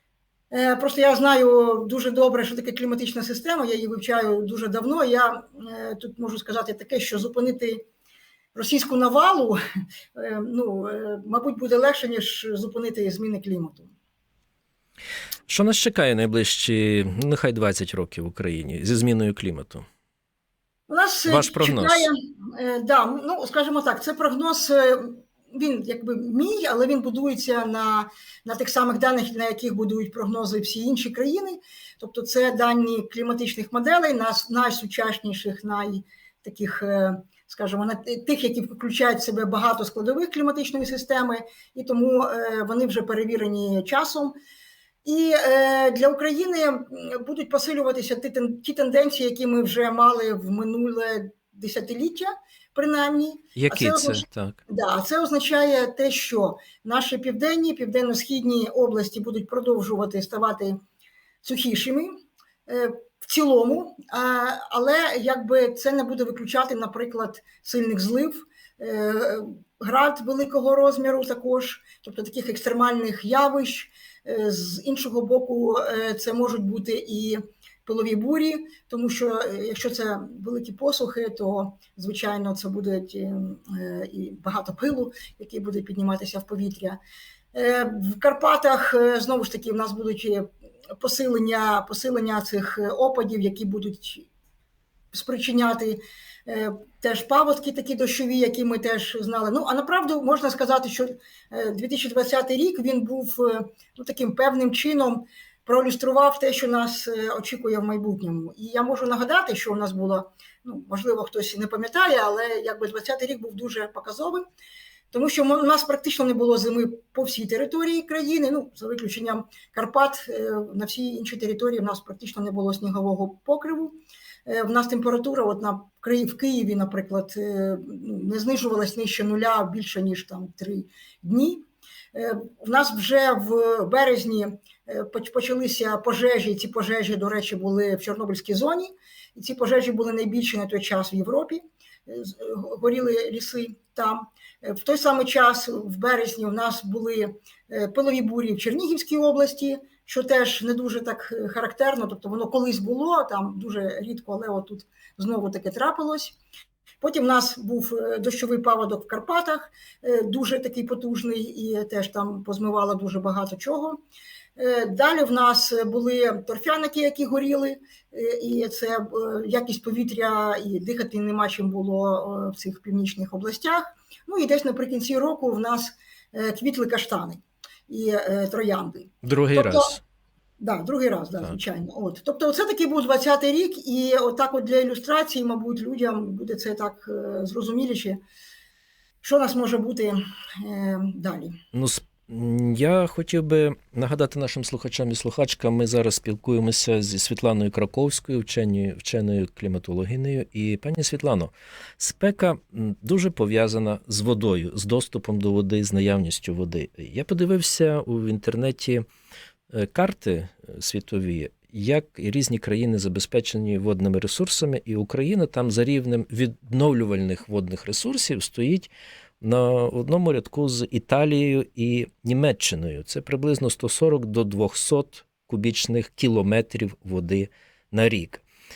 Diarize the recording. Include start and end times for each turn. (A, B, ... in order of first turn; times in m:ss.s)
0:00.5-0:07.8 A
0:08.5-0:09.6 A
0:10.1-0:13.9 A
0:15.5-0:19.8 B
0:20.9-0:44.3 A
0:21.3-0:22.1 B
0:45.0-1:00.8 A
0:53.6-0:54.6 B
1:01.4-1:02.1 A
1:02.6-1:27.0 A
1:27.5-1:30.5 A
1:31.0-1:34.3 A
1:35.1-1:54.4 A
1:55.1-2:03.9 A
2:04.4-2:36.4 A
2:37.0-2:44.0 A
2:44.6-3:00.0 A
2:59.2-3:00.0 B
3:00.6-3:08.2 A
3:09.2-3:11.6 A
3:11.7-3:29.0 B
3:29.7-3:48.4 B